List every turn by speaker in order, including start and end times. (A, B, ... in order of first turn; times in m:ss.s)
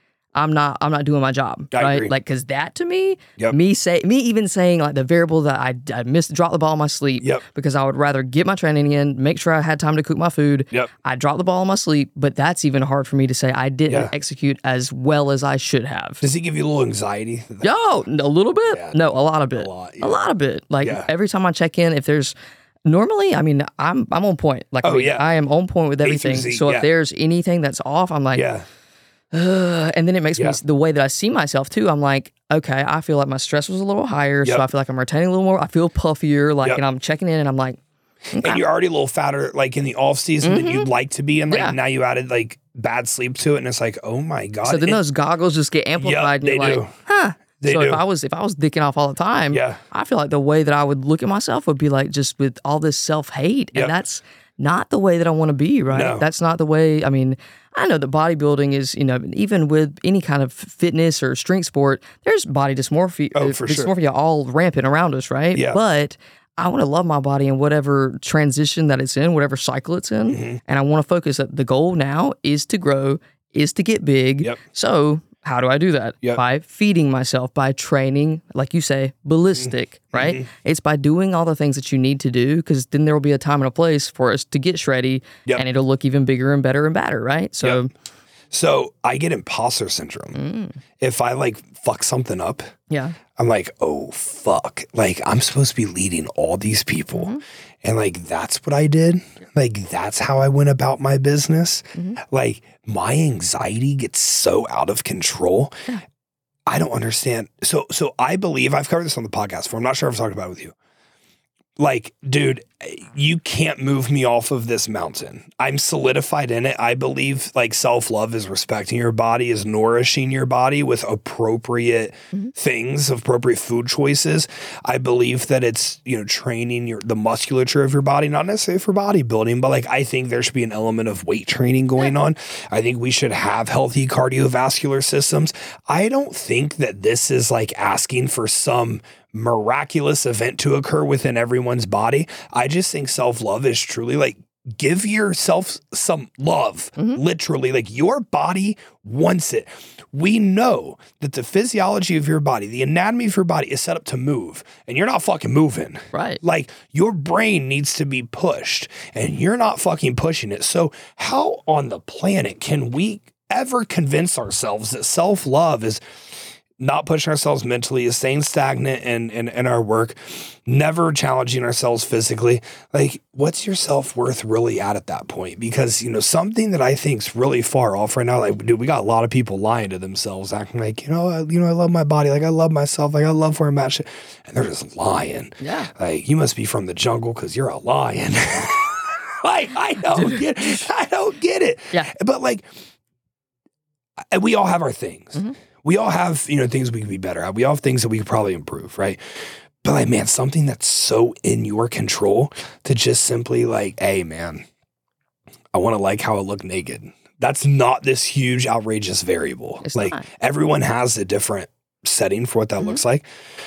0:00.3-0:16.2 A
0:01.7-0:02.1 B
0:13.9-0:14.1 B
0:16.2-0:17.7 B
0:17.6-0:22.3 A
0:18.7-0:19.0 B
0:19.6-0:20.2 B
0:20.8-0:21.1 B
0:22.8-0:28.5 A
0:24.8-0:25.3 B
0:26.0-0:26.9 B
0:28.3-0:28.6 B
0:29.3-0:37.8 A
0:38.3-0:38.6 A
0:38.4-0:45.0 B
0:40.4-0:40.9 A
0:41.5-0:41.8 A
0:44.6-1:27.9 A
0:46.0-0:46.9 B
0:47.6-0:48.0 B
0:49.5-0:49.8 B
0:55.9-0:56.2 B
1:03.3-1:03.9 B
1:05.5-1:05.8 B
1:10.3-1:10.6 B
1:19.6-1:20.4 B
1:28.5-1:30.4 B
1:30.3-1:30.8 A
1:31.0-1:32.7 B
1:32.9-1:33.2 A
1:33.3-1:37.3 B
1:37.1-1:37.4 A
1:37.8-1:45.7 B
1:46.7-1:50.7 B
1:51.8-2:46.0 B
2:36.1-2:36.4 A
2:46.8-3:12.6 B
3:05.6-3:05.9 A
3:10.1-3:10.8 A
3:14.3-3:24.6 B
3:25.7-3:33.2 B
3:29.8-3:30.3 A